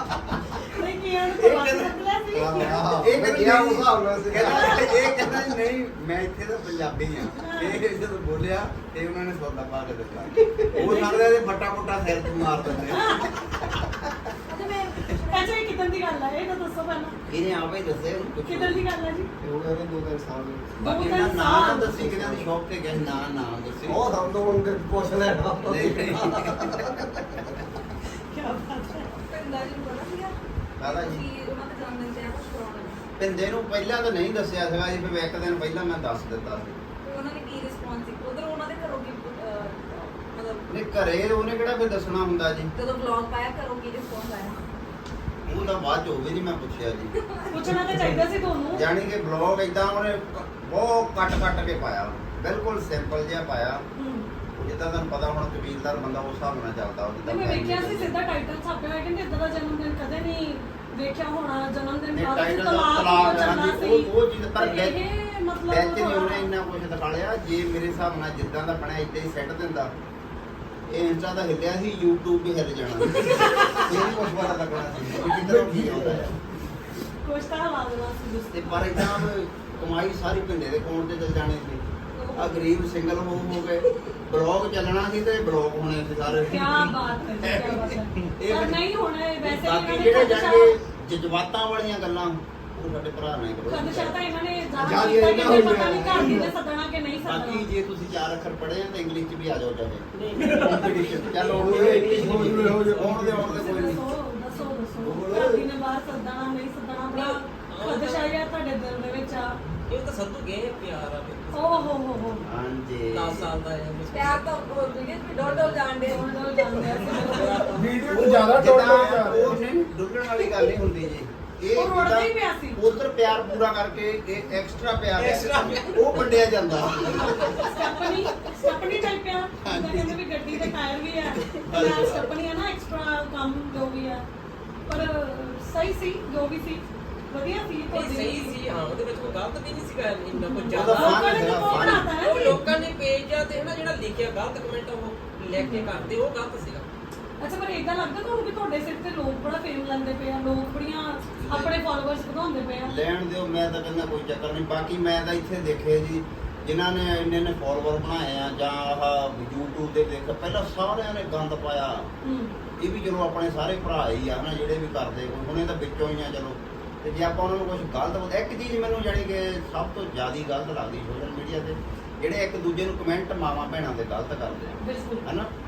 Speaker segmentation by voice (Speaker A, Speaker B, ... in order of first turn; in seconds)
Speaker A: 0.6-2.8, 7.4-7.8, 10.7-11.3, 12.9-13.3, 15.3-17.2, 18.5-19.3, 20.8-21.9, 28.3-29.1, 47.5-48.8, 54.0-54.3, 57.2-66.5, 77.2-79.0, 86.5-90.8, 93.7-97.6, 103.4-109.5, 111.5-112.5, 116.0-117.6, 121.7-122.8, 127.2-134.2, 134.9-138.6, 140.4-142.6, 145.6-145.9, 147.4-152.9, 162.2-162.5, 174.8-175.2
Speaker B: 1.4-1.9, 2.5-13.2, 17.3-18.9, 20.8-24.1, 25.6-26.9, 30.8-31.2, 33.2-36.8, 40.7-42.7, 45.5-47.1, 48.7-53.8, 54.5-58.1, 62.1-65.0, 65.7-69.9, 70.9-76.4, 78.5-81.8, 82.3-88.8, 89.4-94.2, 97.2-104.0, 112.2-113.5, 118.1-127.7, 129.6-130.2, 131.5-132.3, 140.7-142.1, 151.4-151.7, 152.8-162.1, 162.8-175.5
Speaker C: 2.3-5.2, 19.4-20.8, 21.7-22.5, 23.9-27.5, 75.4-76.2, 94.7-96.5, 100.6-103.0, 105.0-105.7
Speaker D: 14.5-15.5, 29.1-30.3, 30.9-33.0, 37.0-40.6, 42.7-44.6, 47.1-47.7, 114.1-116.3, 117.0-117.8
Speaker E: 100.1-102.1, 107.1-108.3, 109.9-112.0, 113.1-115.8, 116.9-117.8, 125.2-126.4, 127.2-127.6, 137.9-146.8
Speaker F: 102.2-103.8, 117.7-119.6